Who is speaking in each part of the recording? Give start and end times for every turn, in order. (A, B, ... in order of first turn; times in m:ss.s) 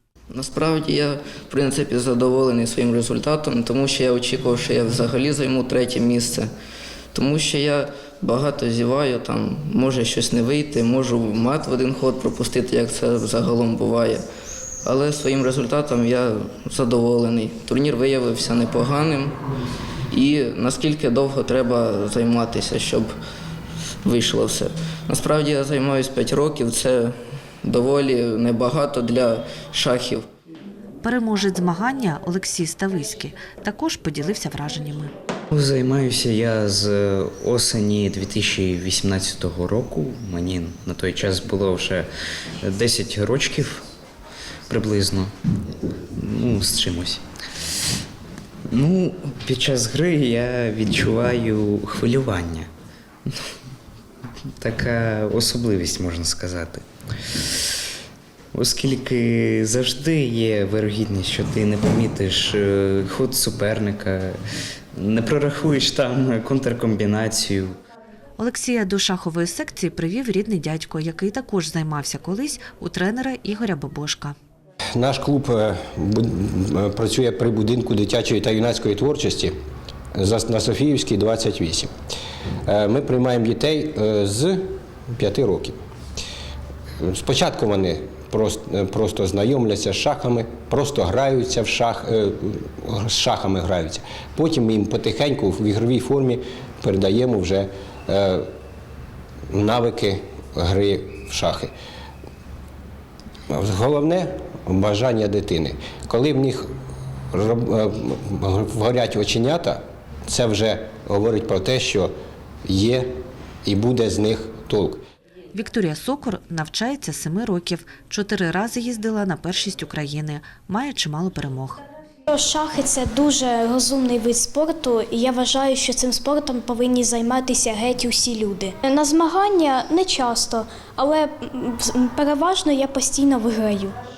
0:00.3-0:06.5 A
0:07.1-0:14.2 A
0:14.8-0:19.4 A
0:20.1-0:23.1 A
0:24.0-0:30.2 A
0:31.0-0:35.1 B
0:35.5-0:42.1 C
0:42.6-0:43.8 C
0:44.7-0:45.3 C
0:46.1-0:47.2 C
0:48.7-0:52.7 C
0:54.6-0:56.8 C
0:58.5-1:04.4 C
1:04.9-1:07.8 C
1:08.4-1:14.3 B
1:15.0-1:19.5 D
1:20.2-1:21.9 D
1:22.7-1:25.8 D
1:27.0-1:38.4 D
1:39.5-1:41.7 D
1:43.5-1:46.7 D
1:47.3-1:52.1 D
1:52.6-1:53.1 D
1:53.6-1:55.0 D
1:55.5-2:01.8 B
2:02.3-2:13.9 E